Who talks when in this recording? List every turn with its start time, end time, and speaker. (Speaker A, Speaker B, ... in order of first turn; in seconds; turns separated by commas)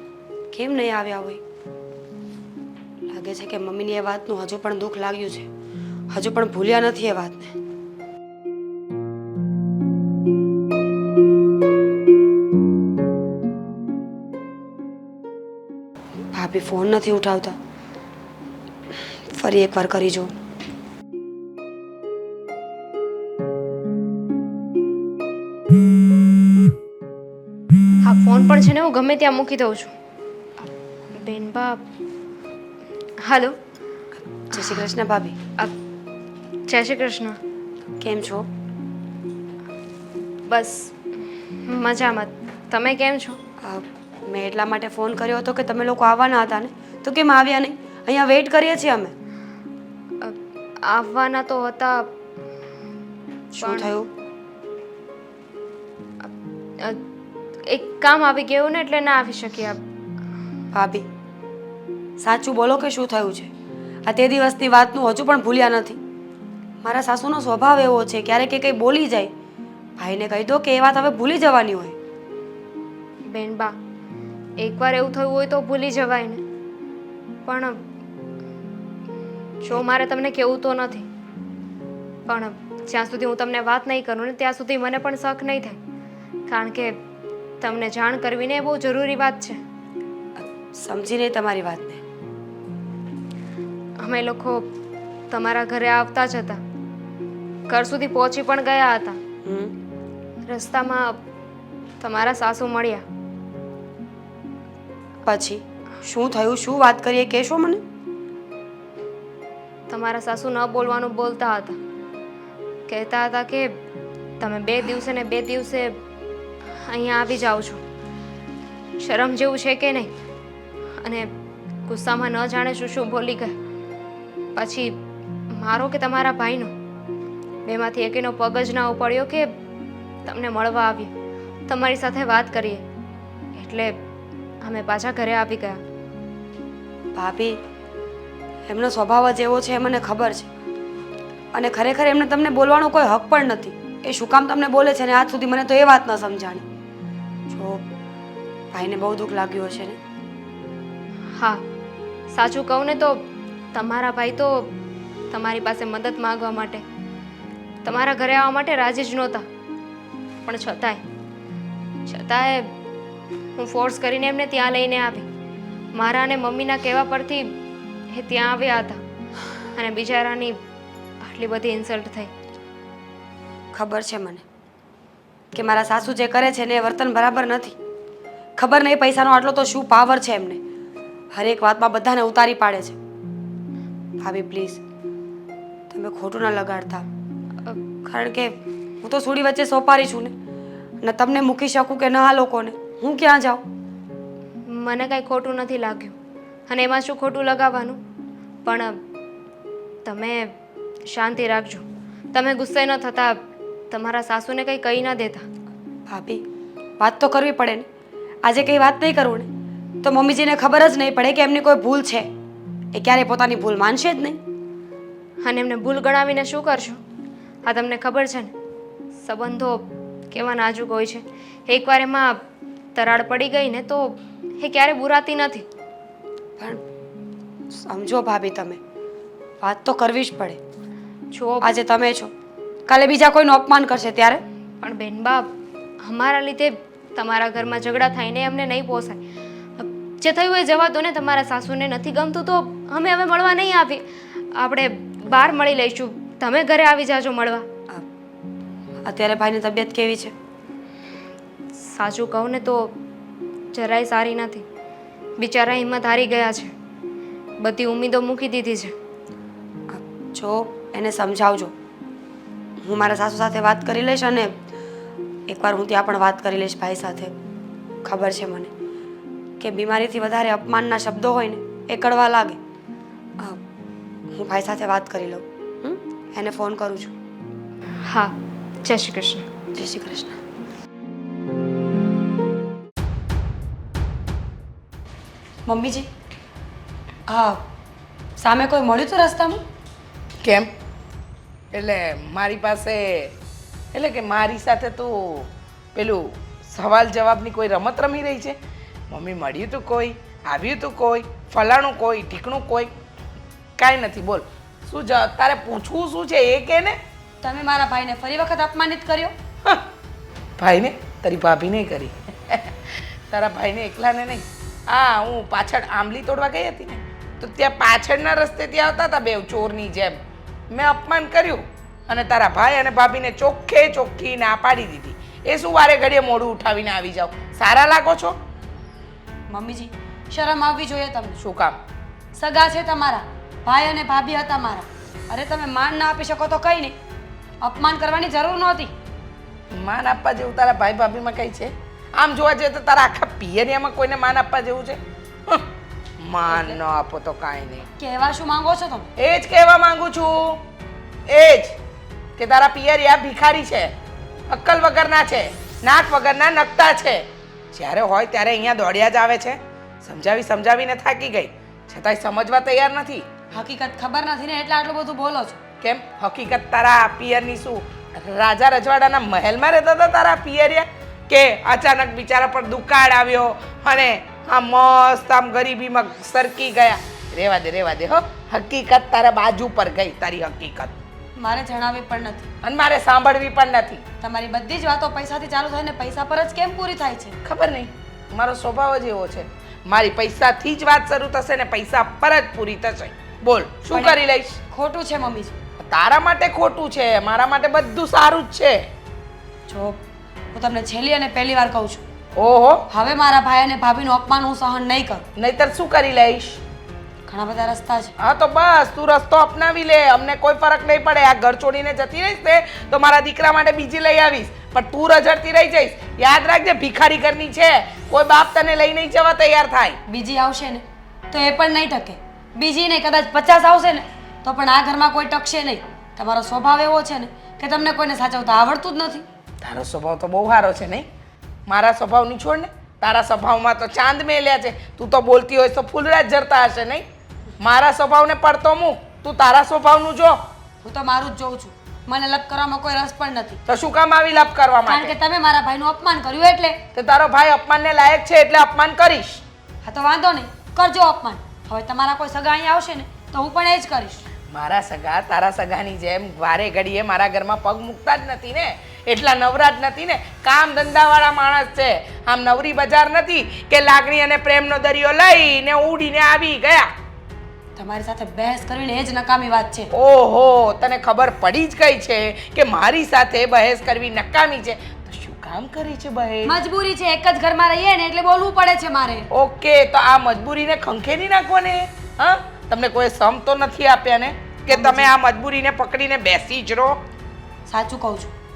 Speaker A: 0.5-1.4, Speaker A: 3.1-5.5, Speaker A: 6.1-7.5, Speaker A: 16.3-17.6, Speaker A: 19.1-20.3, Speaker B: 28.0-29.9, Speaker B: 31.2-31.8, Speaker B: 33.2-33.5, Speaker A: 34.5-35.4, Speaker B: 34.5-34.9, Speaker B: 36.7-37.4, Speaker A: 38.0-38.5, Speaker B: 40.5-40.9, Speaker B: 41.6-43.4, Speaker A: 43.6-49.1, Speaker B: 50.2-52.1, Speaker A: 53.5-54.1, Speaker B: 53.6-54.0, Speaker B: 56.2-57.0, Speaker B: 57.7-59.8, Speaker A: 60.7-61.1, Speaker A: 62.2-63.5, Speaker A: 64.1-66.0, Speaker A: 66.8-69.3, Speaker A: 70.0-72.0, Speaker B: 73.3-73.8, Speaker B: 74.6-76.4, Speaker B: 77.5-77.8, Speaker B: 79.6-81.1, Speaker B: 82.3-85.8, Speaker B: 86.5-87.0, Speaker B: 87.6-89.6, Speaker A: 90.4-92.0, Speaker B: 94.0-94.7, Speaker B: 95.3-96.6, Speaker B: 97.7-99.2, Speaker A: 99.5-99.7, Speaker B: 100.5-101.2, Speaker B: 102.0-103.0, Speaker A: 105.2-107.8, Speaker B: 109.9-111.8, Speaker B: 112.9-113.7, Speaker B: 114.4-116.0, Speaker B: 116.9-117.8, Speaker B: 119.0-120.1, Speaker B: 121.0-121.3, Speaker B: 121.9-123.6, Speaker B: 124.5-125.0, Speaker B: 125.5-126.7, Speaker B: 127.7-129.5, Speaker B: 130.2-131.1, Speaker B: 131.7-132.8, Speaker B: 133.6-133.9, Speaker B: 134.6-135.8, Speaker A: 137.2-137.6, Speaker A: 138.7-140.5, Speaker A: 141.5-146.6, Speaker A: 147.5-147.8, Speaker A: 148.7-150.0, Speaker B: 151.4-151.6, Speaker B: 152.3-153.2, Speaker B: 153.7-154.7, Speaker B: 155.3-156.8, Speaker B: 157.8-159.4, Speaker B: 160.4-161.0, Speaker B: 162.1-162.7, Speaker B: 163.6-165.3, Speaker B: 165.9-167.6, Speaker B: 168.1-169.0, Speaker B: 169.8-170.6, Speaker B: 171.2-172.3, Speaker A: 173.7-174.4, Speaker A: 175.5-177.8, Speaker A: 178.6-180.6, Speaker A: 181.3-183.0, Speaker A: 184.2-184.8, Speaker A: 185.9-187.1, Speaker A: 188.0-190.3, Speaker A: 191.0-193.6, Speaker B: 194.7-196.1, Speaker B: 196.7-198.0, Speaker B: 198.7-199.0, Speaker B: 200.1-200.5, Speaker B: 201.1-203.4, Speaker B: 203.9-205.4, Speaker A: 206.1-206.4, Speaker A: 207.0-207.9, Speaker A: 208.4-209.5, Speaker A: 210.0-212.3, Speaker A: 212.9-214.4, Speaker B: 215.4-217.0, Speaker B: 217.7-218.5, Speaker B: 219.2-222.4, Speaker B: 222.9-225.7, Speaker A: 227.7-228.8, Speaker A: 229.6-230.6, Speaker B: 231.3-231.8, Speaker A: 231.6-232.3, Speaker A: 232.9-234.4, Speaker B: 234.8-235.5, Speaker B: 236.0-239.2, Speaker B: 239.8-247.7, Speaker A: 249.0-250.3, Speaker B: 251.8-252.9, Speaker B: 253.7-254.6, Speaker B: 255.4-256.7, Speaker B: 257.6-258.9, Speaker A: 259.9-261.7, Speaker A: 262.8-264.6, Speaker A: 265.5-267.3, Speaker A: 268.0-268.7, Speaker A: 269.6-272.6, Speaker A: 274.3-277.1, Speaker B: 278.1-279.5, Speaker A: 279.7-280.4, Speaker A: 285.7-286.1, Speaker A: 287.3-287.6, Speaker A: 288.4-289.6, Speaker C: 290.4-290.7, Speaker C: 291.7-293.3, Speaker C: 293.9-298.6, Speaker C: 299.1-302.9, Speaker C: 303.8-307.0, Speaker A: 307.4-309.3, Speaker C: 310.6-312.7, Speaker C: 313.3-320.2, Speaker C: 320.7-328.4, Speaker A: 329.5-331.4, Speaker C: 331.4-331.8, Speaker A: 332.3-337.0, Speaker A: 337.6-338.9, Speaker C: 339.7-345.6, Speaker C: 346.2-347.9, Speaker A: 346.5-346.8, Speaker A: 348.0-349.1, Speaker C: 349.2-350.6, Speaker C: 351.3-351.8, Speaker C: 352.4-353.9, Speaker C: 354.5-363.2, Speaker A: 363.5-365.6, Speaker C: 365.8-381.0, Speaker A: 381.4-382.5, Speaker C: 382.6-384.0, Speaker A: 384.2-387.4, Speaker C: 387.4-394.6, Speaker A: 393.9-395.6, Speaker C: 395.9-398.8, Speaker A: 399.7-400.0, Speaker A: 400.5-402.0, Speaker C: 402.4-402.8, Speaker A: 402.9-405.2, Speaker C: 405.4-406.6, Speaker A: 407.3-408.1, Speaker C: 408.2-420.0, Speaker A: 420.1-429.2, Speaker C: 429.6-431.1, Speaker C: 431.7-437.1, Speaker C: 437.6-440.4, Speaker A: 440.8-443.6, Speaker C: 443.7-445.2, Speaker A: 444.9-446.8, Speaker C: 446.9-449.4, Speaker A: 449.8-454.2, Speaker C: 454.5-466.9, Speaker A: 467.8-469.9, Speaker C: 469.9-476.6, Speaker A: 476.4-479.3, Speaker C: 479.3-487.0, Speaker A: 484.7-485.1, Speaker A: 487.7-488.3